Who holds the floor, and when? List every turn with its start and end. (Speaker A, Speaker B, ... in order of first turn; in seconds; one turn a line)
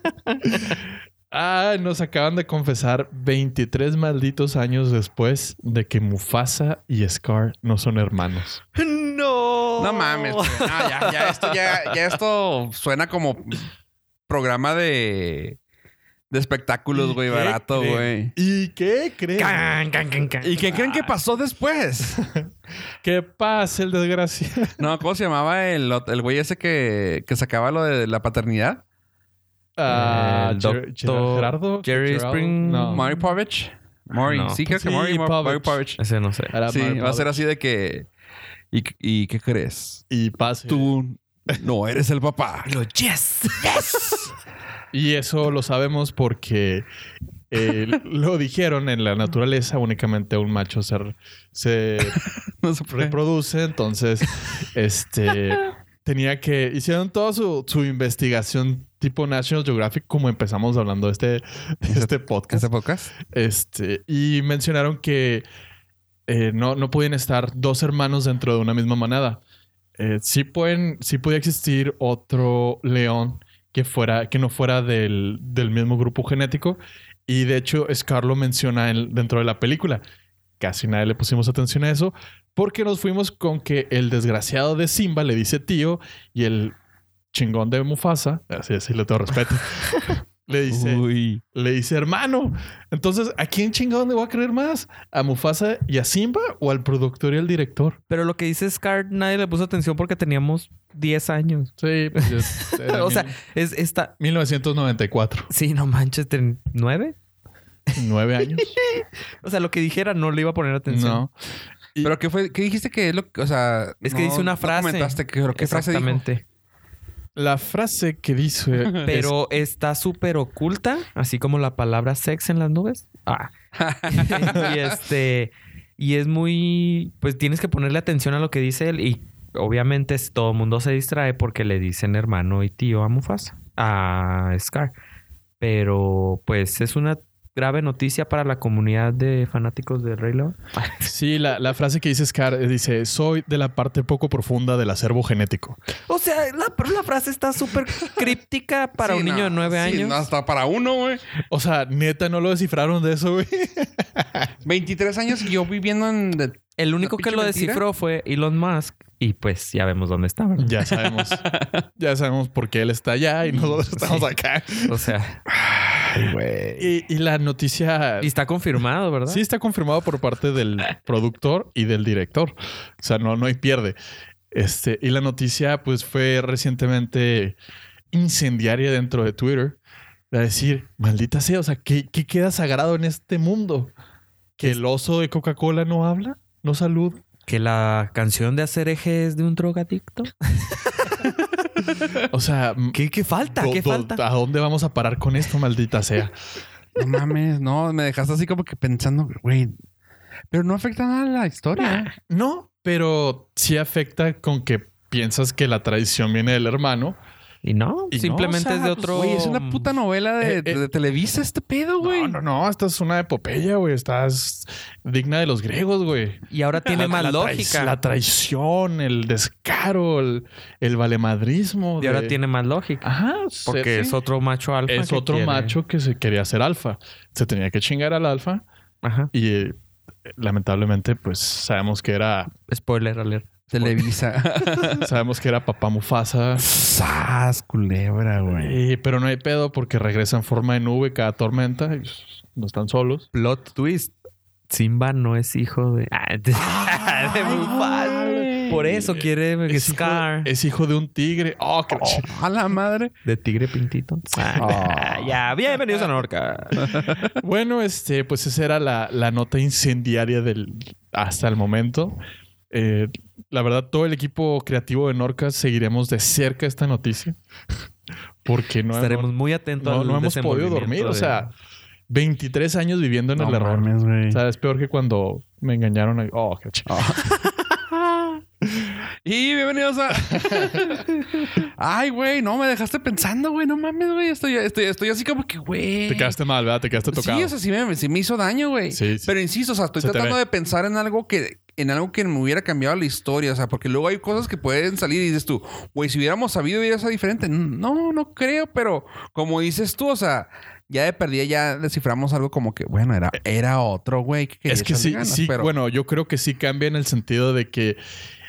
Speaker A: 0.3-0.7
Speaker B: 0.5-8.6
Speaker A: 8.7-12.1
Speaker C: 9.8-13.6
Speaker C: 14.3-15.6
Speaker C: 16.3-18.3
Speaker B: 16.9-19.7
Speaker A: 19.4-21.1
Speaker C: 20.4-22.2
Speaker B: 22.2-22.4
Speaker B: 23.0-24.8
Speaker C: 24.8-28.8
Speaker B: 29.8-33.1
Speaker A: 29.9-33.1
Speaker C: 32.9-36.0
Speaker A: 34.2-34.6
Speaker B: 34.6-35.8
Speaker A: 36.0-36.5
Speaker B: 36.5-37.4
Speaker C: 36.7-38.1
Speaker C: 38.7-40.0
Speaker B: 40.1-40.9
Speaker C: 40.7-42.7
Speaker A: 42.6-44.3
Speaker B: 44.9-46.9
Speaker B: 47.5-52.2
Speaker C: 52.1-53.2
Speaker B: 52.9-62.7
Speaker C: 61.9-63.1
Speaker B: 63.2-65.4
Speaker B: 66.3-69.4
Speaker B: 70.0-80.0
Speaker B: 80.6-86.7
Speaker B: 87.3-98.0
Speaker C: 90.7-91.4
Speaker A: 98.1-104.1
Speaker B: 101.8-103.4
Speaker B: 104.2-105.5
Speaker A: 105.5-107.1
Speaker B: 107.9-108.7
Speaker A: 108.5-111.2
Speaker B: 110.9-111.3
Speaker C: 112.0-116.2
Speaker A: 114.0-116.4
Speaker B: 117.3-119.3
Speaker C: 118.8-119.1
Speaker A: 119.0-123.5
Speaker C: 123.7-125.0
Speaker A: 124.0-134.9
Speaker A: 135.6-141.1
Speaker B: 141.0-145.8
Speaker A: 146.1-150.3
Speaker C: 149.0-151.2
Speaker B: 151.5-154.5
Speaker C: 154.6-157.8
Speaker A: 156.8-160.9
Speaker B: 160.6-161.4
Speaker C: 161.5-161.8
Speaker B: 162.0-165.1
Speaker A: 163.5-164.3
Speaker A: 164.9-165.4
Speaker C: 165.5-166.9
Speaker B: 166.8-168.3
Speaker A: 168.2-169.4
Speaker B: 169.3-174.0
Speaker B: 174.5-177.5
Speaker B: 178.1-179.8
Speaker B: 180.3-183.9
Speaker B: 184.6-187.2
Speaker A: 187.5-191.4
Speaker B: 192.2-196.3
Speaker A: 192.9-194.2
Speaker C: 196.9-199.8
Speaker C: 200.5-202.1
Speaker B: 202.3-207.2
Speaker A: 207.6-209.9
Speaker B: 208.1-209.5
Speaker C: 209.1-212.4
Speaker B: 210.4-210.8
Speaker B: 212.0-222.4
Speaker A: 216.5-217.9
Speaker A: 222.0-223.1
Speaker B: 223.0-224.2
Speaker A: 223.6-225.8
Speaker B: 224.9-228.6
Speaker A: 229.0-229.3
Speaker B: 229.3-229.8
Speaker B: 230.3-232.5
Speaker A: 232.7-233.5
Speaker C: 233.7-235.1
Speaker B: 235.0-236.7
Speaker C: 236.6-238.8
Speaker B: 238.5-243.3
Speaker A: 243.3-244.1
Speaker A: 244.7-250.5
Speaker B: 246.6-252.3
Speaker C: 247.4-248.8
Speaker C: 251.9-253.1
Speaker A: 253.2-257.1
Speaker B: 254.4-254.9
Speaker C: 254.6-255.3
Speaker C: 256.8-257.3
Speaker B: 257.2-262.2
Speaker B: 262.7-267.4
Speaker B: 268.4-271.5
Speaker A: 268.9-271.4
Speaker B: 272.1-277.2
Speaker C: 273.4-274.4
Speaker C: 276.9-277.9
Speaker C: 279.2-286.4
Speaker B: 280.3-280.8
Speaker B: 286.1-287.5
Speaker C: 287.1-305.7
Speaker B: 288.9-289.3
Speaker B: 290.0-290.4
Speaker B: 304.7-308.0